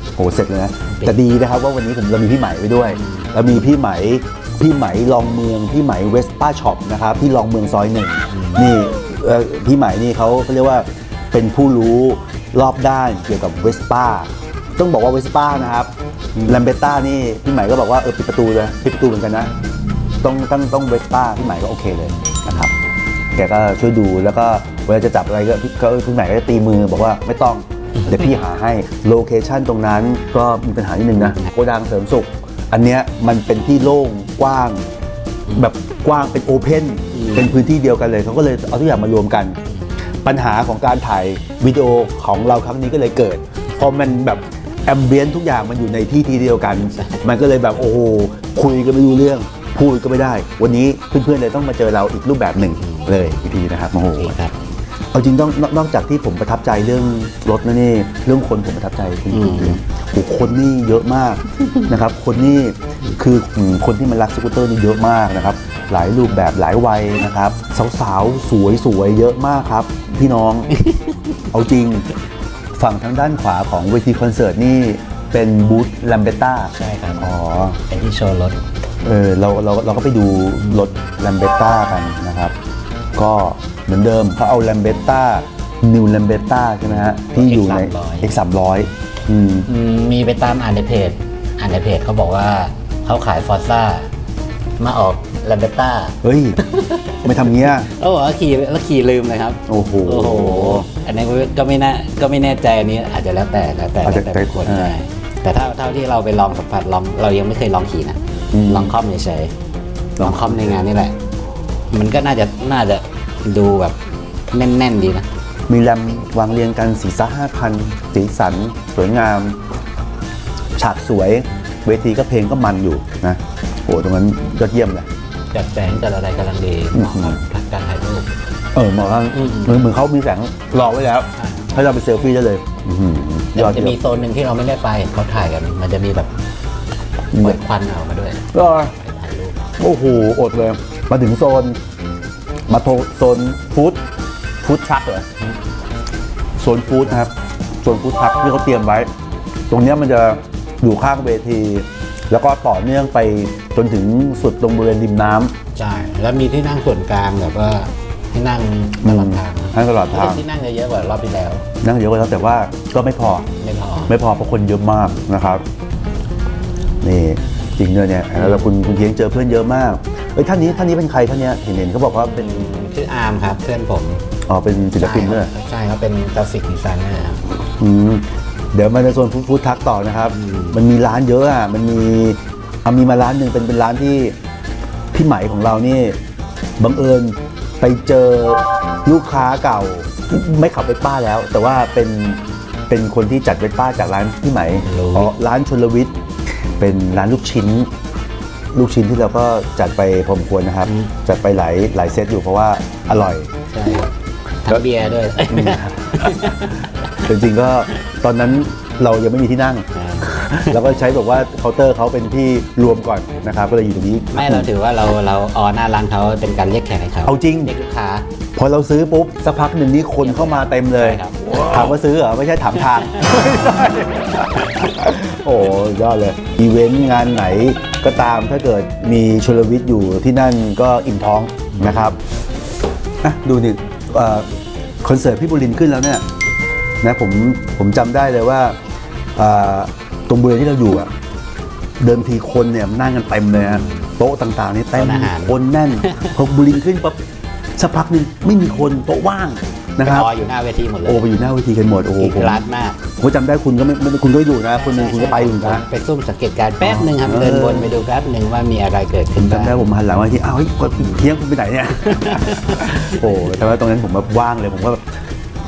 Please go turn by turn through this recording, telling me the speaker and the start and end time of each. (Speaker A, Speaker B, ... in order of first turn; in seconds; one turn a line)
Speaker A: 0.2-15.9
Speaker B: 0.9-1.2
Speaker B: 2.9-3.7
Speaker B: 8.3-8.8
Speaker A: 16.5-19.5
Speaker A: 20.2-22.7
Speaker A: 23.4-34.8
Speaker B: 31.2-31.5
Speaker A: 35.6-39.6
Speaker B: 37.1-37.5
Speaker A: 40.2-54.4
Speaker B: 52.8-53.4
Speaker B: 54.0-54.5
Speaker A: 55.1-70.7
Speaker B: 59.3-59.8
Speaker B: 70.7-71.5
Speaker A: 71.5-72.1
Speaker A: 72.8-77.8
Speaker B: 76.7-77.3
Speaker B: 77.8-78.6
Speaker A: 79.0-82.5
Speaker A: 83.2-89.7
Speaker B: 86.9-88.4
Speaker B: 89.7-94.1
Speaker B: 94.8-109.5
Speaker A: 96.2-96.6
Speaker A: 97.2-97.9
Speaker A: 99.7-100.9
Speaker A: 104.0-105.0
Speaker A: 108.5-108.9
Speaker A: 110.2-110.8
Speaker B: 110.2-111.2
Speaker B: 111.9-114.0
Speaker B: 114.5-115.3
Speaker A: 115.7-119.6
Speaker A: 120.8-125.1
Speaker B: 125.5-128.3
Speaker A: 126.9-127.4
Speaker A: 128.7-134.0
Speaker B: 129.3-129.8
Speaker B: 131.4-131.7
Speaker B: 133.6-136.3
Speaker A: 137.3-137.6
Speaker B: 137.4-139.7
Speaker A: 138.5-138.9
Speaker A: 139.8-141.8
Speaker A: 142.7-144.0
Speaker A: 144.6-145.3
Speaker A: 146.6-149.1
Speaker A: 149.7-155.5
Speaker B: 155.8-161.7
Speaker A: 159.0-160.4
Speaker A: 161.8-163.5
Speaker B: 163.6-164.1
Speaker A: 164.1-165.6
Speaker A: 167.0-172.7
Speaker B: 168.4-168.7
Speaker B: 172.2-174.2
Speaker A: 174.5-175.5
Speaker B: 175.0-177.5
Speaker A: 177.8-184.3
Speaker B: 180.3-180.8
Speaker A: 185.1-186.2
Speaker A: 186.8-196.1
Speaker B: 194.8-195.3
Speaker A: 196.8-197.9
Speaker A: 198.7-203.5
Speaker B: 203.7-204.1
Speaker B: 204.7-207.3
Speaker A: 205.5-214.7
Speaker B: 209.9-210.8
Speaker B: 214.3-218.3
Speaker A: 217.2-217.7
Speaker A: 218.6-232.2
Speaker B: 220.2-221.8
Speaker B: 223.1-223.6
Speaker B: 231.7-232.2
Speaker A: 233.2-234.5
Speaker A: 235.0-236.2
Speaker A: 237.0-238.8
Speaker A: 239.4-241.1
Speaker A: 242.0-247.2
Speaker B: 243.5-244.1
Speaker B: 244.9-246.3
Speaker A: 247.8-250.3
Speaker B: 250.0-251.3
Speaker A: 251.1-255.8
Speaker B: 252.2-253.0
Speaker B: 254.8-259.9
Speaker A: 256.8-257.9
Speaker A: 259.4-265.1
Speaker B: 262.0-263.2